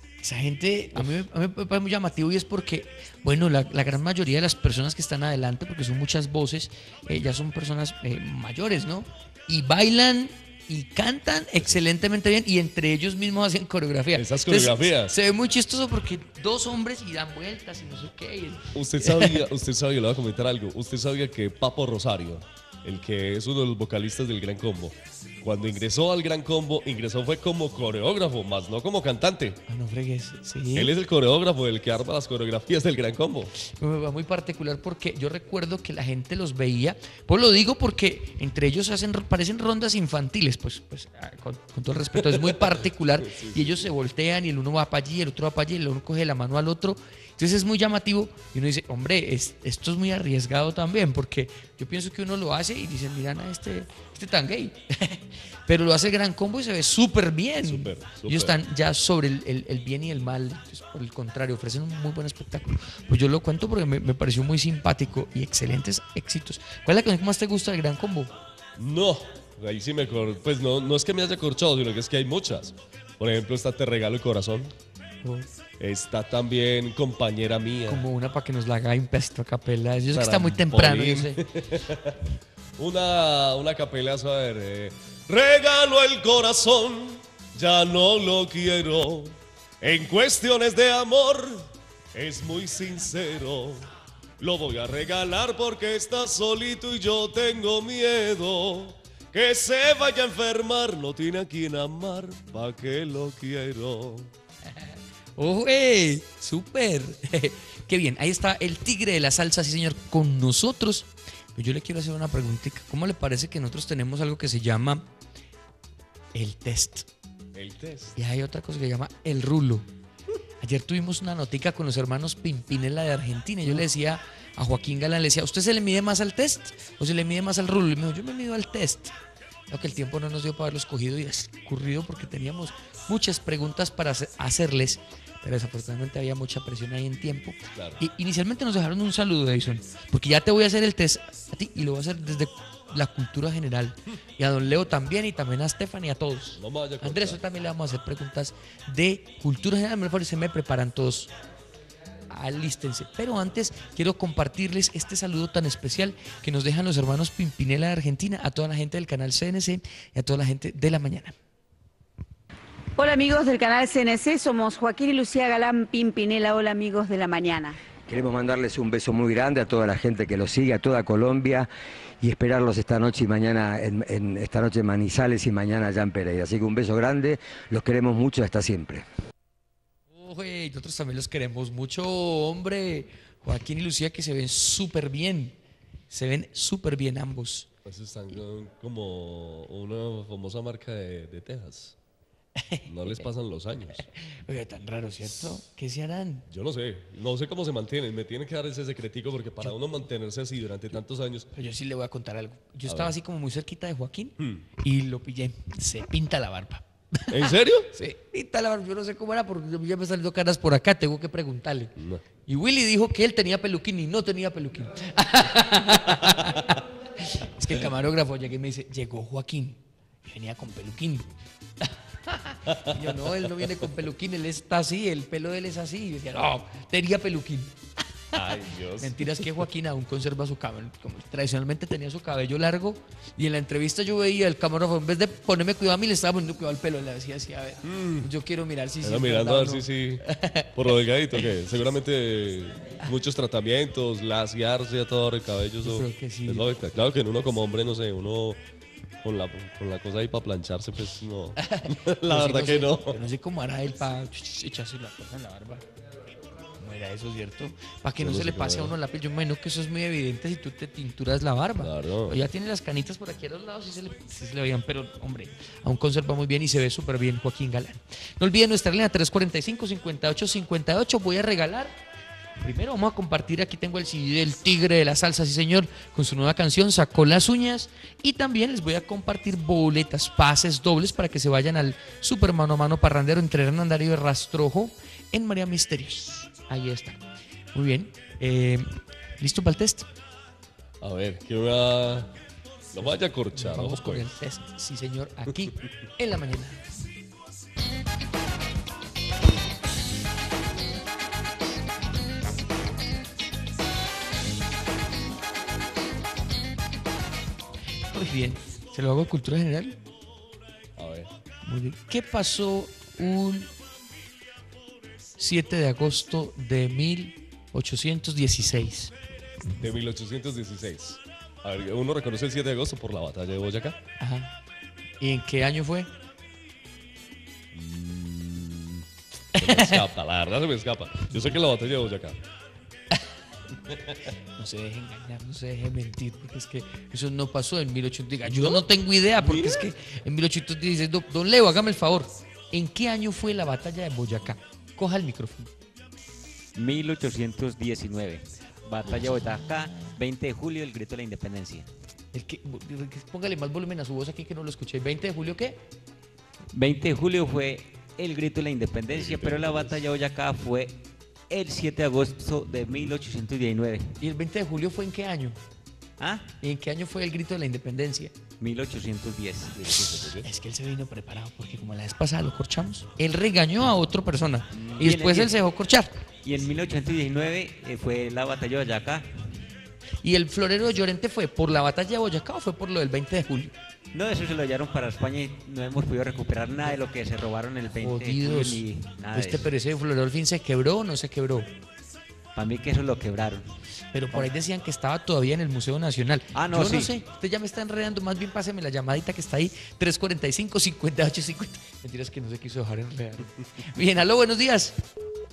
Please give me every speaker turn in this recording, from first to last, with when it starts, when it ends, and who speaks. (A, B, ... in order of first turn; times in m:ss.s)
0:00.2-0:19.4 A
0:14.1-0:15.2 B
0:18.7-0:29.6 B
0:29.7-0:30.9 A
0:30.7-0:33.5 B
0:33.6-1:08.3 A
0:42.2-0:43.8 B
0:57.6-0:58.6 B
1:08.8-1:14.7 B
1:15.2-1:15.5 A
1:15.8-1:18.0 B
1:17.9-1:21.4 A
1:20.1-1:22.2 B
1:22.8-1:33.9 B
1:34.4-1:44.3 B
1:44.7-1:55.1 A
1:56.3-1:57.1 A
1:57.5-1:58.2 B
1:58.2-1:59.8 A
2:00.6-2:09.2 A
2:09.7-2:31.3 A
2:26.6-2:27.4 B
2:32.3-2:41.4 A
2:43.0-2:47.8 C
2:48.1-2:51.7 D
2:52.2-2:59.0 D
3:00.1-3:05.6 A
3:06.1-3:07.7 A
3:07.8-3:12.0 B
3:12.6-3:12.9 A
3:12.9-3:14.0 B
3:14.0-3:16.5 A
3:16.5-3:21.5 B
3:21.5-3:31.9 A
3:22.9-3:23.1 B
3:24.4-3:24.6 B
3:27.3-3:27.9 B
3:32.0-3:32.2 B
3:32.4-3:41.3 A
3:36.3-3:36.6 B
3:41.8-3:47.7 A
3:48.3-3:49.6 B
3:48.4-4:00.7 A
3:57.8-3:58.3 B
3:59.0-4:08.6 B
4:05.8-4:06.7 A
4:09.2-4:13.2 B
4:11.6-4:15.8 A
4:16.8-4:31.9 A
4:18.2-4:18.9 B
4:21.8-4:22.3 B
4:32.6-4:47.2 A
4:47.7-4:50.1 A
4:51.0-4:52.3 B
4:52.9-4:54.3 B
4:53.5-4:56.8 A
5:08.1-5:10.0 A
5:11.0-5:11.3 B
5:11.6-5:13.7 A
5:15.4-5:19.1 A
5:19.8-5:24.0 B
5:24.2-5:24.5 A
5:25.2-5:26.1 A
5:27.7-5:32.4 B
5:29.6-5:30.0 A
5:33.9-5:34.2 B
5:34.6-5:45.7 A
5:38.4-5:38.8 B
5:39.4-5:39.9 B
5:46.7-5:51.9 E
5:52.3-5:55.8 A
5:56.7-6:04.2 E
5:59.1-6:00.0 B
6:04.2-6:05.6 A
6:06.2-6:06.5 E
6:06.6-6:08.3 A
6:08.6-6:09.8 E
6:09.7-6:10.5 B
6:10.4-6:16.1 A
6:14.7-6:15.6 E
6:16.4-6:19.2 E
6:20.2-6:23.7 A
6:24.1-6:29.7 E
6:28.0-6:31.7 A
6:32.5-6:33.6 E
6:34.1-6:45.0 A
6:36.5-6:37.2 E